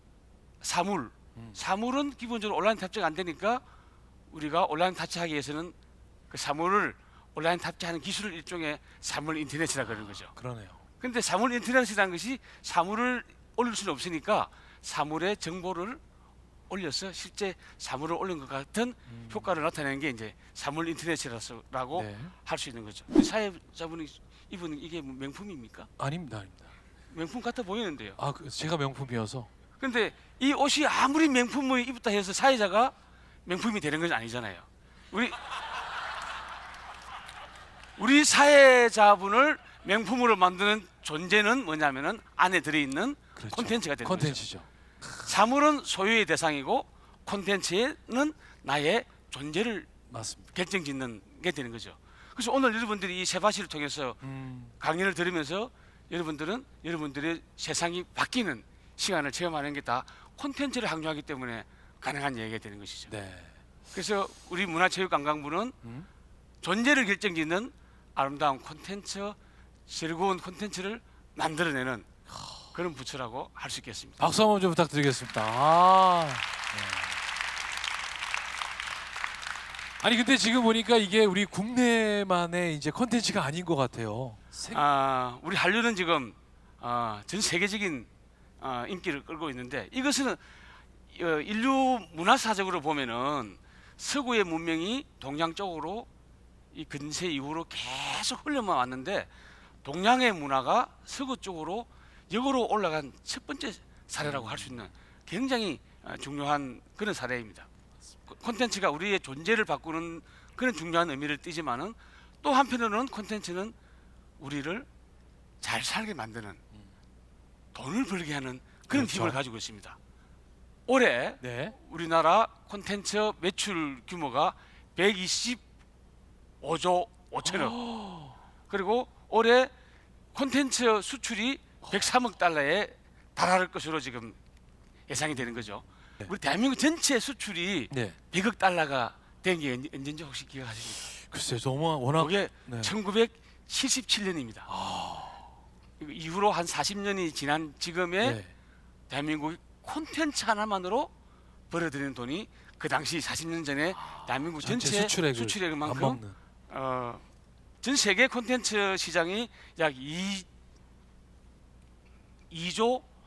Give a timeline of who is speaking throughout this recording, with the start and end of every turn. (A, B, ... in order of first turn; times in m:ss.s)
0:00.6-0:03.6 A
0:04.3-0:05.8 A
0:06.3-0:10.3 A
0:10.3-0:10.8 B
0:11.0-0:16.0 A
0:16.7-0:25.9 A
0:19.1-0:19.5 B
0:21.9-0:22.4 B
0:26.0-0:26.7 B
0:27.1-0:28.2 A
0:28.2-0:29.5 B
0:29.8-0:32.9 A
0:33.4-0:35.4 A
0:38.0-0:44.4 A
0:43.4-0:45.3 B
0:45.2-0:49.9 A
0:50.1-0:50.5 B
0:50.5-0:54.2 A
0:54.2-0:54.8 B
0:54.8-1:03.1 A
1:03.1-1:03.6 B
1:03.9-1:05.8 A
1:06.6-1:12.1 A
1:12.7-1:14.3 A
1:14.2-1:17.2 B
1:20.0-1:24.8 B
1:24.7-1:28.1 A
1:28.6-1:30.4 A
1:31.1-1:36.1 A
1:36.7-1:39.3 A
1:39.8-1:47.7 A
1:44.2-1:44.9 B
1:48.3-1:53.8 A
1:54.4-1:54.9 A
1:55.6-1:56.6 A
1:57.7-2:00.0 A
1:58.9-1:59.4 B
2:00.9-2:05.6 A
2:01.4-2:01.8 B
2:06.6-2:07.8 A
2:07.4-2:08.4 B
2:08.7-2:09.7 A
2:10.3-2:14.4 A
2:15.1-2:21.1 A
2:17.9-2:18.2 B
2:21.2-2:22.9 B
2:22.2-2:24.7 A
2:24.7-2:25.5 B
2:26.0-2:28.4 A
2:28.2-2:28.5 B
2:29.1-2:31.1 A
2:31.7-2:37.2 A
2:34.0-2:36.4 B
2:37.8-2:40.5 A
2:42.5-2:43.0 A